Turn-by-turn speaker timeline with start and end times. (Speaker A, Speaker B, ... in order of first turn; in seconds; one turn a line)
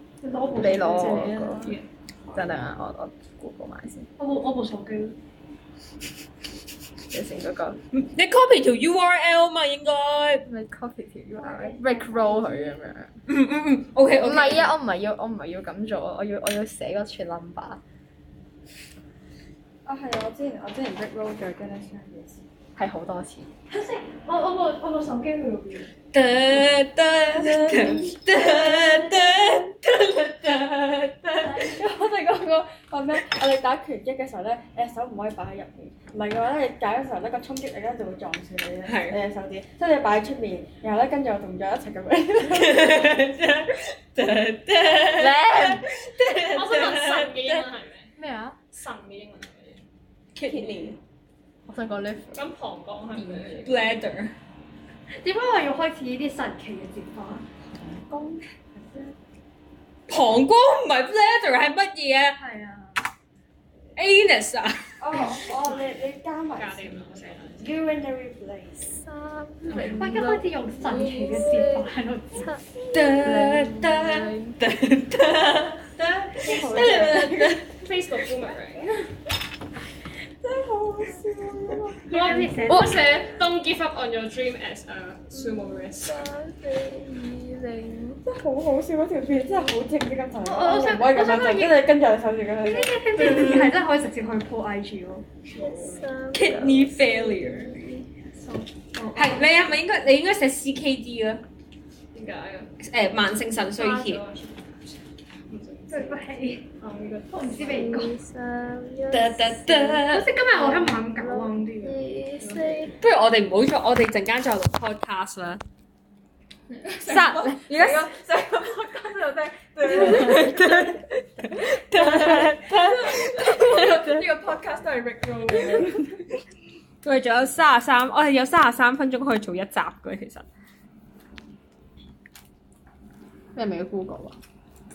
Speaker A: 0.2-1.8
Speaker B: 0.6-1.8
Speaker B: 2.3-4.1
Speaker A: 4.2-5.2
Speaker B: 7.1-7.8
Speaker C: 7.9-10.4
Speaker B: 10.5-13.1
Speaker A: 11.4-12.8
Speaker C: 13.3-14.8
Speaker B: 14.2-17.8
Speaker D: 19.9-22.4
Speaker B: 22.8-23.5
Speaker A: 23.7-25.9
Speaker C: 26.1-31.7
Speaker A: 27.9-29.7
Speaker A: 31.4-31.9
Speaker D: 31.6-43.2
Speaker C: 38.9-39.2
Speaker C: 42.5-47.7
Speaker B: 45.2-45.8
Speaker E: 45.6-48.1
Speaker B: 48.2-48.6
Speaker E: 48.7-49.8
Speaker C: 50.4-51.0
Speaker B: 51.7-52.4
Speaker E: 52.4-54.0
Speaker B: 53.2-53.6
Speaker C: 53.6-54.3
Speaker A: 55.1-57.5
Speaker A: 58.8-59.1
Speaker C: 60.1-62.4
Speaker A: 62.4-63.0
Speaker C: 64.0-64.9
Speaker D: 65.0-69.0
Speaker A: 65.1-65.4
Speaker E: 65.5-67.7
Speaker B: 69.4-71.5
Speaker C: 69.7-70.4
Speaker A: 69.7-72.5
Speaker C: 72.9-77.8
Speaker B: 72.9-74.6
Speaker D: 76.4-77.6
Speaker E: 77.0-79.1
Speaker D: 80.4-82.1
Speaker A: 82.1-83.2
Speaker E: 82.1-86.2
Speaker B: 82.7-83.0
Speaker A: 85.4-88.2
Speaker D: 88.2-93.4
Speaker A: 90.4-91.9
Speaker A: 92.6-99.5
Speaker E: 95.5-96.0
Speaker C: 96.3-97.8
Speaker C: 99.1-101.4
Speaker E: 102.1-102.7
Speaker C: 102.8-104.2
Speaker E: 103.8-108.0
Speaker A: 105.9-106.6
Speaker A: 107.3-113.0
Speaker C: 109.1-110.4
Speaker B: 110.6-111.5
Speaker E: 112.4-113.0
Speaker C: 113.0-115.6
Speaker D: 116.9-126.2
Speaker C: 117.0-118.1
Speaker C: 119.8-124.2
Speaker C: 127.0-130.5
Speaker B: 133.6-134.4